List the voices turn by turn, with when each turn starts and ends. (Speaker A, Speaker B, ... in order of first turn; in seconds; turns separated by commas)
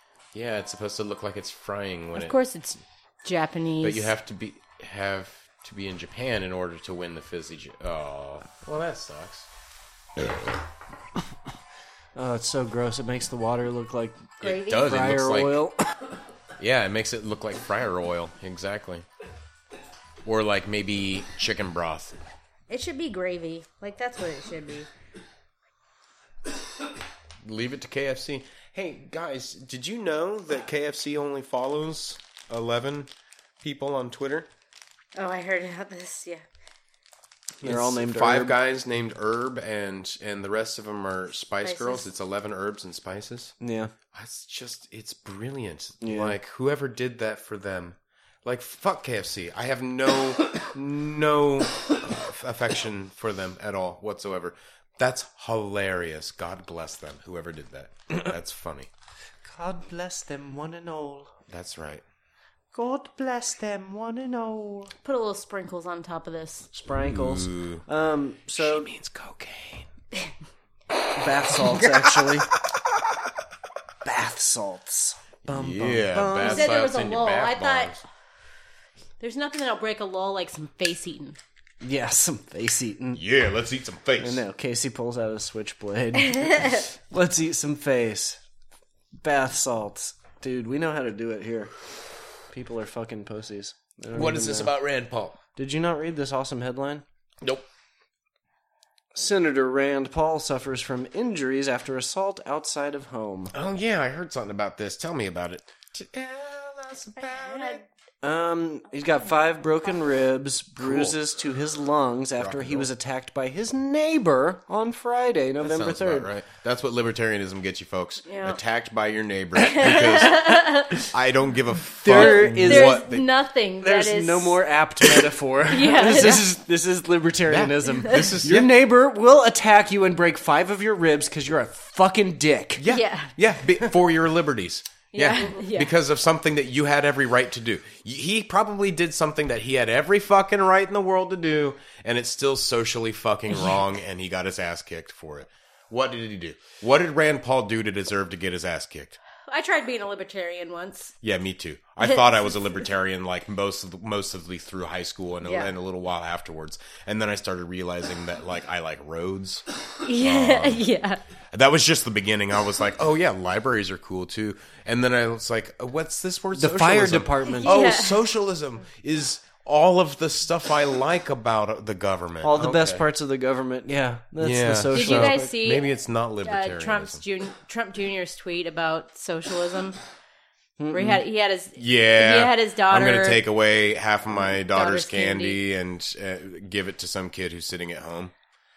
Speaker A: 0.3-2.4, Speaker B: 2.1-4.1, Speaker A: 3.8-9.5, Speaker C: 12.2-15.8, Speaker A: 14.4-15.6, Speaker B: 14.4-14.8, Speaker A: 16.6-19.1, Speaker A: 20.2-22.1, Speaker B: 22.7-24.9, Speaker A: 27.4-33.1, Speaker A: 33.6-34.5, Speaker B: 35.2-36.4, Speaker C: 37.6-38.6, Speaker A: 37.6-43.5, Speaker B: 41.6-42.1, Speaker C: 43.6-43.9, Speaker A: 44.1-58.9, Speaker C: 46.0-46.4, Speaker C: 59.4-61.3, Speaker A: 61.5-62.0, Speaker C: 62.7-64.9, Speaker B: 65.0-66.7, Speaker C: 66.7-68.9, Speaker A: 67.0-67.8, Speaker A: 68.6-69.9, Speaker C: 71.2-72.5, Speaker C: 74.0-76.8, Speaker A: 75.5-78.0, Speaker B: 76.4-77.9, Speaker B: 79.2-81.4, Speaker C: 81.8-83.2, Speaker A: 83.1-84.4, Speaker C: 84.2-88.4, Speaker C: 89.2-91.7, Speaker C: 92.5-94.7, Speaker A: 94.1-95.4, Speaker C: 95.6-97.0, Speaker C: 99.1-103.5, Speaker A: 103.5-107.8, Speaker B: 107.3-107.8, Speaker C: 108.2-116.3, Speaker A: 110.8-111.2, Speaker A: 112.4-112.9, Speaker A: 115.6-123.2, Speaker B: 118.3-118.6, Speaker B: 119.6-121.0, Speaker C: 122.0-123.0, Speaker B: 122.1-124.6, Speaker C: 123.8-132.8, Speaker B: 125.7-126.5, Speaker A: 127.5-128.7, Speaker A: 132.8-149.2, Speaker B: 132.9-133.3, Speaker B: 135.1-135.9, Speaker B: 149.5-151.1, Speaker A: 151.2-159.7, Speaker B: 155.4-155.7, Speaker B: 160.0-161.2, Speaker A: 160.2-160.8, Speaker A: 161.5-173.0, Speaker C: 166.5-167.8, Speaker B: 167.6-168.2, Speaker C: 172.4-175.5, Speaker A: 174.4-177.2, Speaker B: 174.9-175.9, Speaker B: 176.4-180.0, Speaker C: 180.8-181.2, Speaker B: 180.9-183.4, Speaker A: 181.8-188.3, Speaker B: 184.6-185.6